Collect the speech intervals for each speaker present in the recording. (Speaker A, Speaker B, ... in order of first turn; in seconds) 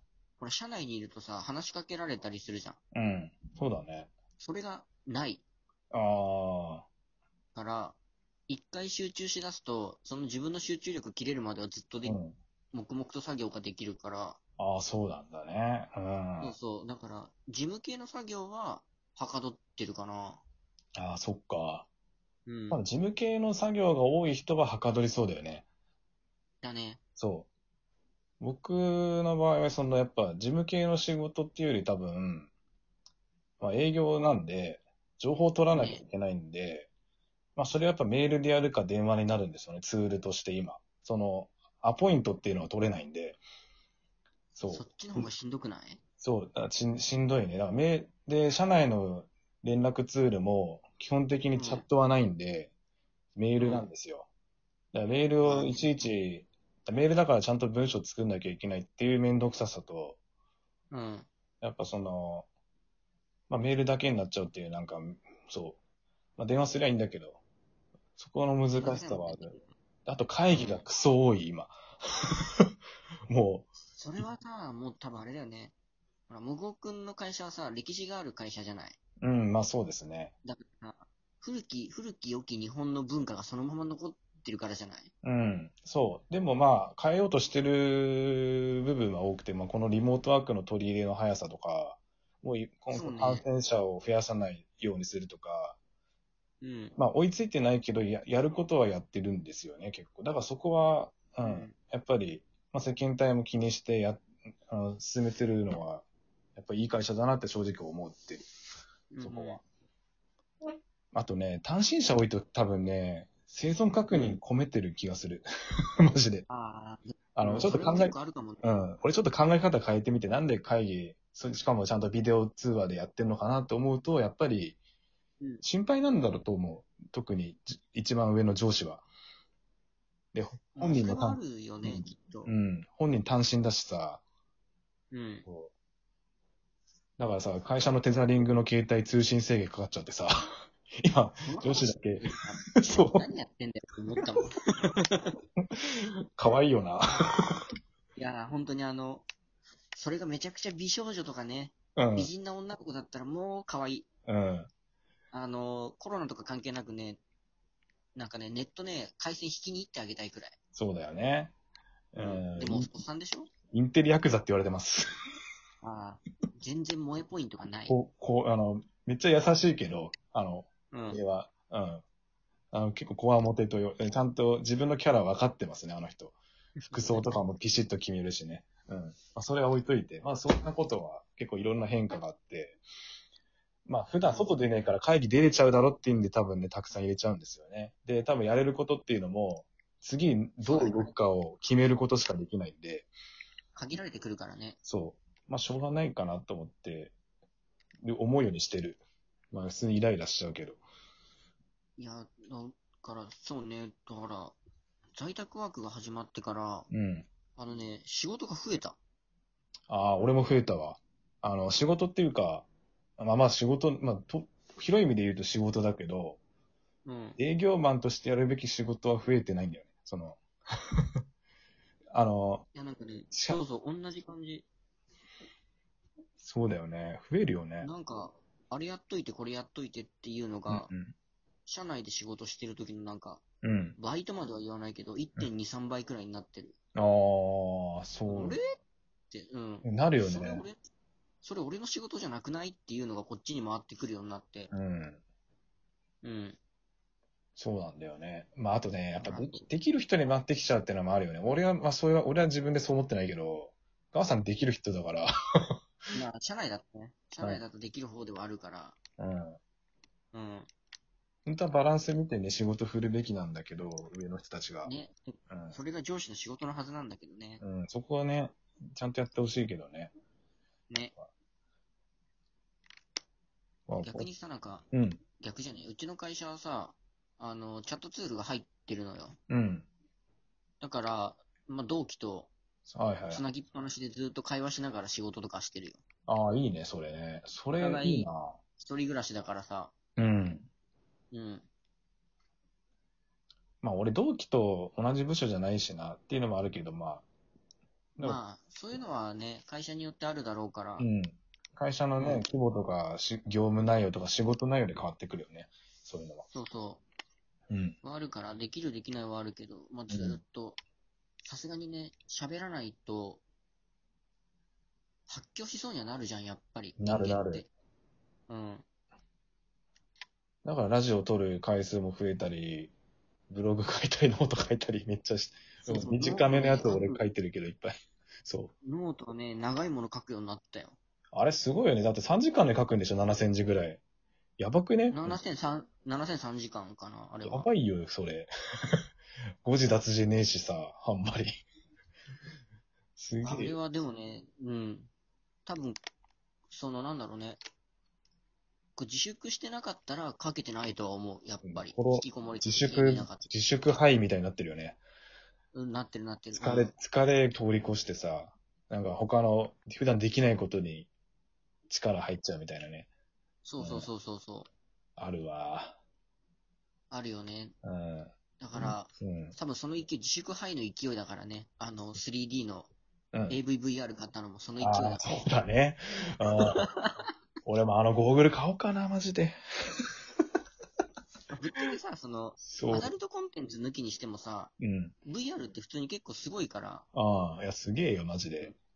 Speaker A: 0.4-2.8, 4.4-5.4, 7.5-8.0, 8.5-12.2, 12.7-14.4, 16.4-20.4, 22.4-22.8, 26.6-27.0, 35.7-36.0, 44.7-46.0, 51.5-51.9, 53.6-53.9, 55.4-56.0, 60.9-61.3, 68.7-69.7, 70.5-70.8, 74.0-75.7, 76.3-79.0, 80.4-85.1, 92.9-93.4, 96.6-97.0, 101.4-101.7, 109.1-109.6, 114.1-114.4, 116.5-118.7, 130.7-132.5, 135.1-135.4, 141.4-145.3, 148.2-149.2, 149.9-154.1, 155.3-157.2, 158.1-160.5, 162.2-163.5, 165.8-167.9, 170.9-171.2, 176.8-177.4, 184.3-184.6, 190.6-191.1, 193.7-194.8, 202.0-204.5, 205.1-206.9, 207.6-209.0, 217.1-217.4, 222.7-224.7, 227.8-230.9, 231.7-233.4, 234.0-236.8, 238.3-238.6, 239.3-240.8, 241.4-244.7, 246.2-246.6, 249.2-249.6, 256.1-259.0, 260.3-260.7, 264.8-267.6, 274.0-274.8, 275.4-279.4, 280.8-282.5, 283.2-286.0, 287.8-289.9, 291.3-291.6, 298.2-301.1, 302.2-302.4, 306.5-307.0, 308.0-310.8, 311.4-313.4, 315.3-317.7, 318.5-318.8, 325.8-327.2, 328.8-331.0, 335.1-337.7, 343.4-345.1, 345.6-346.0, 346.7-347.6, 348.9-354.0, 355.7-356.9, 363.6-364.7, 367.1-367.7, 368.6-372.9, 373.5-375.4, 376.5-377.2, 381.5-384.7, 385.2-387.1
Speaker B: 2.9-4.1, 5.9-6.8, 12.0-12.3, 14.6-16.5, 20.9-21.9, 22.7-25.6, 27.2-27.5, 28.4-32.5, 33.6-36.9, 37.5-43.4, 44.5-45.3, 46.2-52.7, 53.4-54.3, 54.9-60.2, 61.6-62.5, 63.5-65.8, 66.4-67.4, 68.2-69.5, 70.0-71.7, 73.3-73.7, 79.2-80.3, 85.2-95.8, 97.0-106.0, 106.5-108.4, 109.2-109.6, 111.1-115.5, 116.0-116.4, 117.3-124.8, 125.6-129.0, 130.3-134.2, 135.4-135.7, 137.2-140.5, 141.0-142.2, 142.8-143.2, 146.3-147.0, 152.0-152.3, 154.3-154.7, 160.7-161.5, 162.1-162.9, 163.7-165.0, 167.9-172.0, 172.7-176.4, 176.9-182.8, 183.8-193.1, 194.8-197.1, 198.0-200.8, 206.9-207.2, 209.9-212.7, 213.2-216.4, 217.4-220.4, 222.1-222.7, 223.3-223.6, 226.4-227.9, 230.7-231.1, 233.6-233.9, 236.9-238.6, 239.8-240.7, 244.7-245.2, 247.6-255.7, 259.2-259.6, 261.4-264.9, 265.5-265.8, 267.6-270.1, 273.9-274.3, 274.9-275.2, 279.5-279.9, 282.9-283.4, 286.3-288.6, 290.2-290.7, 293.8-297.2, 301.0-306.5, 307.7-307.9, 310.1-310.4, 317.0-317.6, 320.6-322.9, 323.5-327.9, 328.4-328.7, 331.3-334.0, 334.6-335.4, 337.4-338.5, 339.6-341.6, 343.2-343.8, 351.6-355.0, 356.5-361.1, 361.9-363.1, 363.8-364.1, 365.2-365.9, 367.8-369.5, 374.8-376.8, 377.6-379.6, 382.6-383.1, 384.8-385.1, 387.1-388.7